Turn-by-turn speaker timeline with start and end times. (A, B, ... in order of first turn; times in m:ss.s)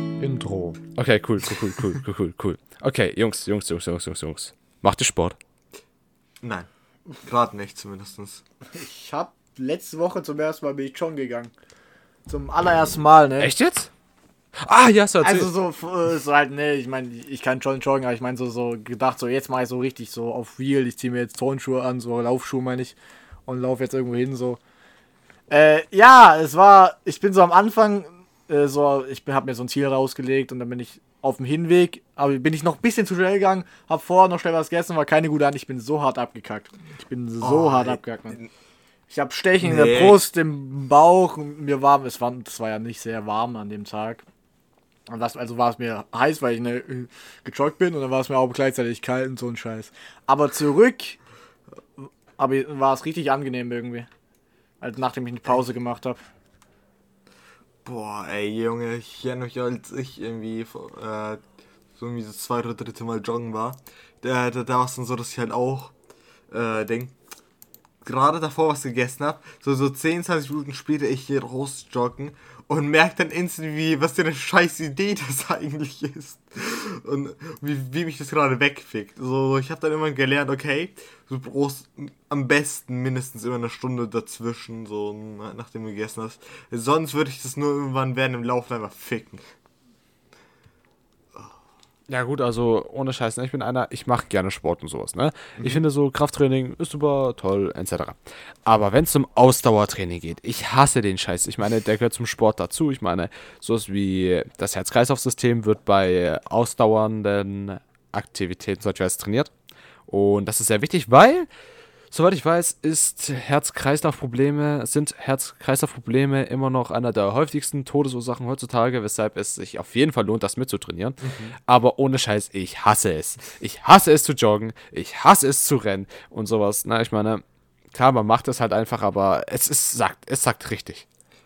0:00.2-0:00.8 A
0:01.0-0:05.4 B
0:06.4-0:06.7 C
0:07.2-0:08.4 C
0:08.7-0:11.5 A
0:12.3-0:13.5 A
0:13.4-0:13.9 B
0:14.6-0:15.5 B
0:15.2-0:23.0 A
0:23.5-0:24.6 A
0:25.5-0:38.4 A
0:37.4-0:38.5 C
0:39.1-0:44.2 A
0:39.6-0:40.2 C
0:45.1-0:51.2 A
0:52.4-0:54.1 A
0:54.8-0:56.2 A
0:57.8-1:01.4 C
1:02.0-1:06.0 C
1:06.5-1:07.2 C
1:08.0-1:29.5 C
1:32.1-1:49.5 B
1:50.1-1:51.5 B
1:52.1-2:11.1 B
2:01.2-2:01.6 C